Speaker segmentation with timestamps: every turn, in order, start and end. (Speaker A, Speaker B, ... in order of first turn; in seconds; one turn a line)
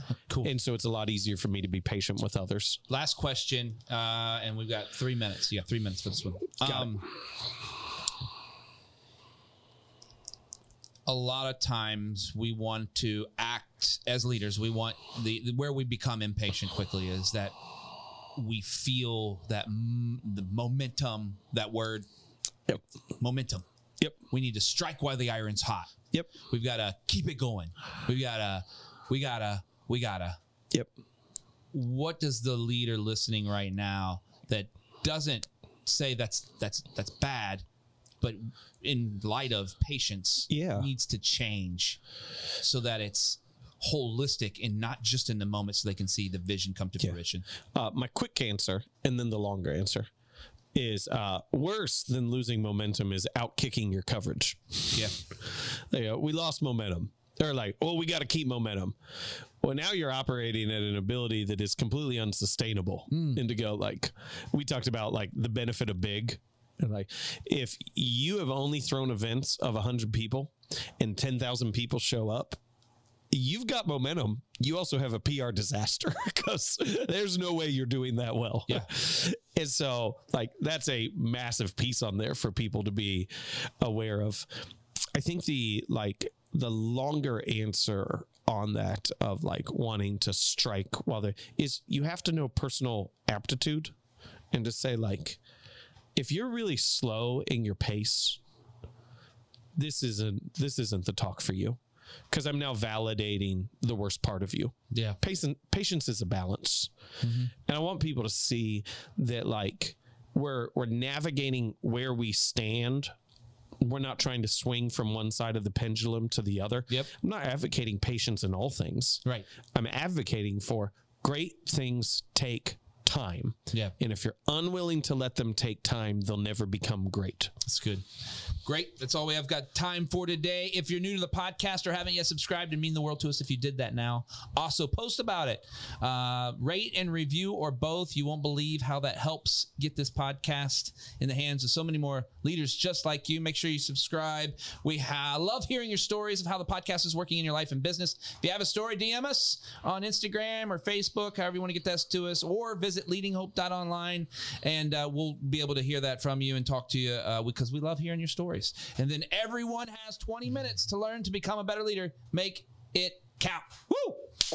Speaker A: 0.1-0.5
Speaker B: 0.4-2.8
Speaker A: 2.9-7.1
Speaker B: 6.6-6.9
Speaker A: 11.1-17.5
Speaker A: 18.3-22.1
Speaker A: 23.2-23.6
Speaker A: 24.3-30.4
Speaker A: 31.7-37.6
Speaker A: 38.2-42.0
Speaker B: 40.5-40.9
Speaker A: 42.6-47.5
Speaker B: 47.7-50.1
Speaker B: 50.7-59.0
Speaker B: 59.6-72.6
Speaker A: 63.1-63.4
Speaker B: 73.3-84.5
Speaker B: 85.1-93.9
Speaker B: 94.5-95.4
Speaker B: 96.1-98.4
Speaker B: 99.8-101.8
Speaker B: 102.3-106.9
Speaker A: 104.9-105.2
Speaker A: 107.2-107.5
Speaker B: 107.7-113.1
Speaker B: 113.8-127.5
Speaker A: 127.6-128.0
Speaker A: 128.6-164.2